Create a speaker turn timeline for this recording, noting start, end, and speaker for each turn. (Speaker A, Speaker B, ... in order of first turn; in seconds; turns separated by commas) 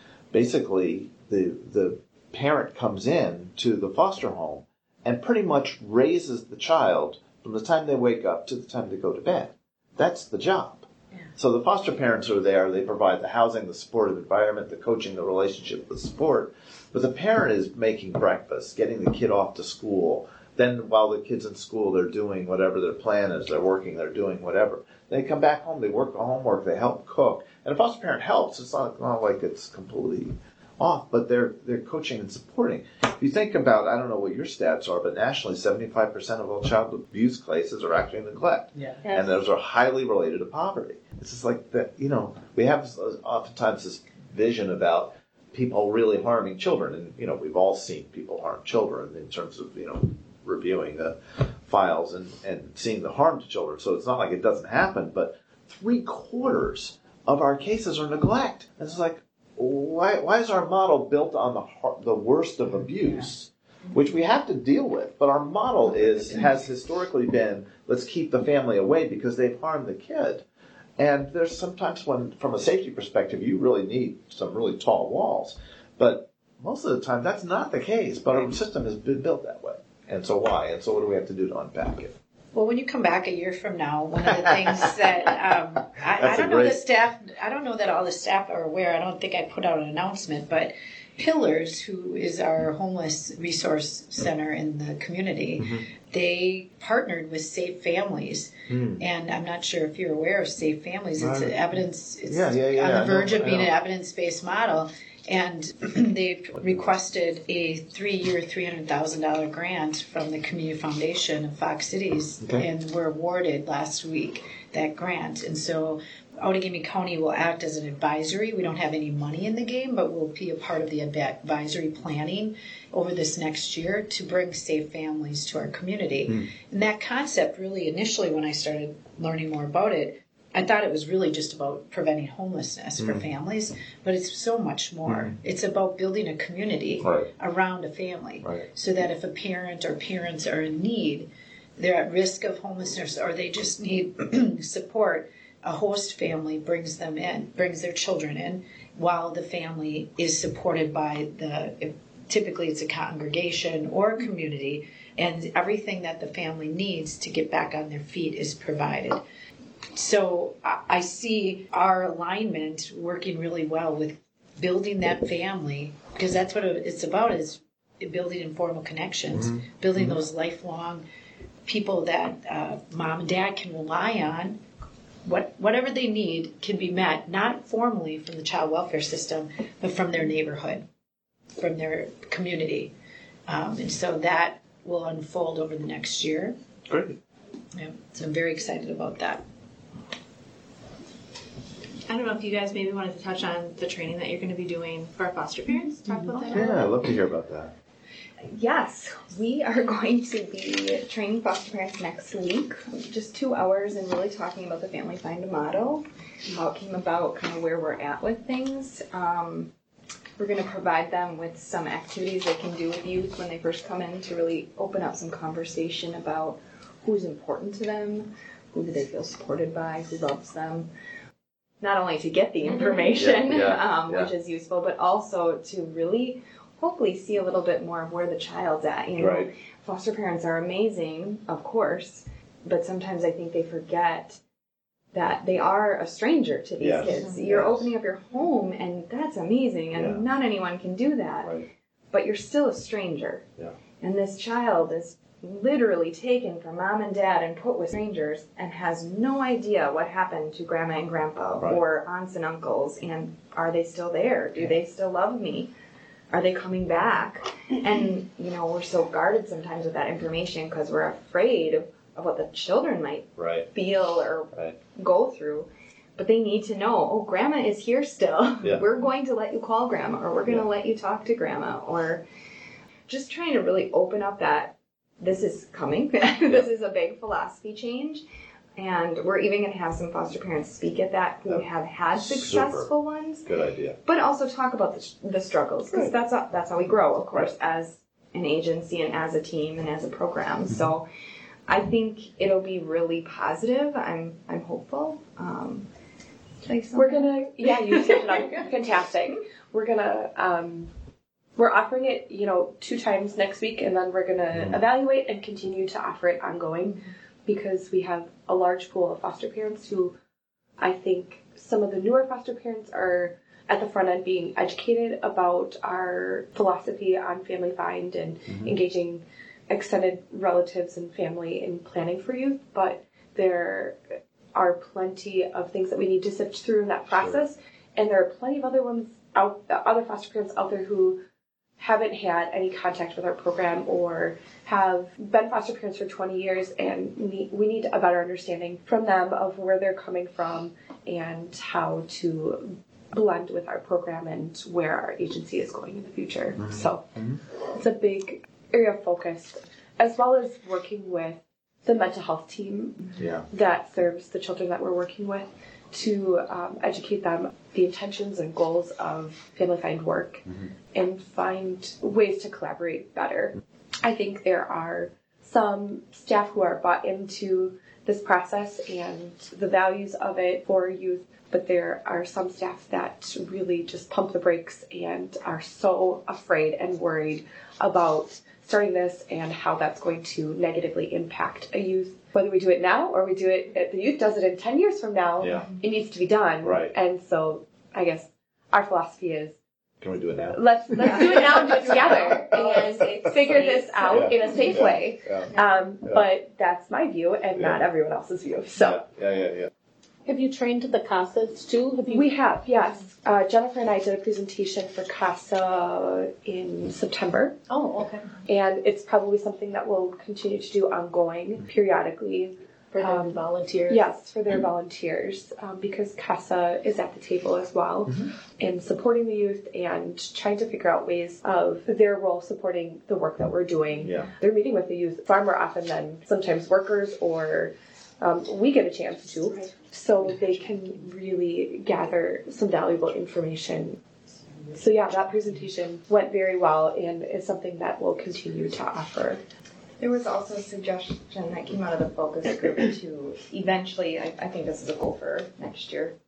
Speaker A: 0.3-70.4, Speaker A: 71.0-82.1, Speaker B: 82.5-159.2, Speaker A: 84.4-84.9, Speaker A: 86.1-86.8, Speaker A: 95.6-95.9, Speaker A: 98.7-99.0, Speaker A: 101.2-103.7, Speaker A: 133.0-133.2, Speaker A: 135.1-135.3, Speaker A: 137.0-137.3, Speaker B: 159.9-171.1, Speaker A: 169.3-170.2, Speaker B: 171.7-174.6, Speaker B: 175.2-180.9, Speaker B: 181.6-182.9, Speaker B: 183.5-186.6, Speaker A: 186.9-187.2, Speaker B: 187.8-189.4, Speaker C: 192.1-196.8, Speaker A: 196.5-197.7, Speaker D: 198.5-209.7, Speaker D: 210.4-220.9, Speaker D: 221.8-234.4, Speaker A: 223.2-224.3, Speaker A: 229.2-229.5, Speaker D: 235.1-241.5, Speaker A: 236.8-237.9, Speaker A: 239.9-240.2, Speaker D: 242.1-243.4, Speaker D: 244.0-255.7, Speaker D: 256.3-272.2, Speaker A: 263.4-263.7, Speaker D: 273.1-278.2, Speaker D: 278.8-283.5, Speaker A: 281.5-282.9, Speaker A: 283.5-284.0, Speaker D: 284.1-291.1, Speaker D: 291.7-295.9, Speaker D: 296.6-298.6, Speaker E: 296.9-300.9, Speaker E: 301.6-310.1, Speaker A: 304.5-304.8, Speaker E: 310.8-324.0, Speaker A: 318.5-318.8, Speaker E: 324.6-331.2, Speaker A: 327.1-327.4, Speaker E: 331.8-347.0, Speaker A: 346.6-347.4, Speaker E: 347.7-360.4, Speaker A: 353.2-353.5, Speaker E: 360.9-389.6, Speaker A: 385.4-385.7, Speaker A: 386.6-386.9, Speaker A: 390.0-395.5, Speaker E: 390.5-399.0, Speaker D: 391.1-395.0, Speaker A: 397.6-397.8, Speaker A: 398.8-399.7, Speaker F: 400.3-402.3, Speaker E: 402.1-407.6, Speaker F: 407.7-408.3, Speaker E: 408.5-434.0, Speaker F: 412.9-414.1, Speaker A: 424.0-424.3, Speaker E: 434.7-439.4, Speaker D: 440.0-446.1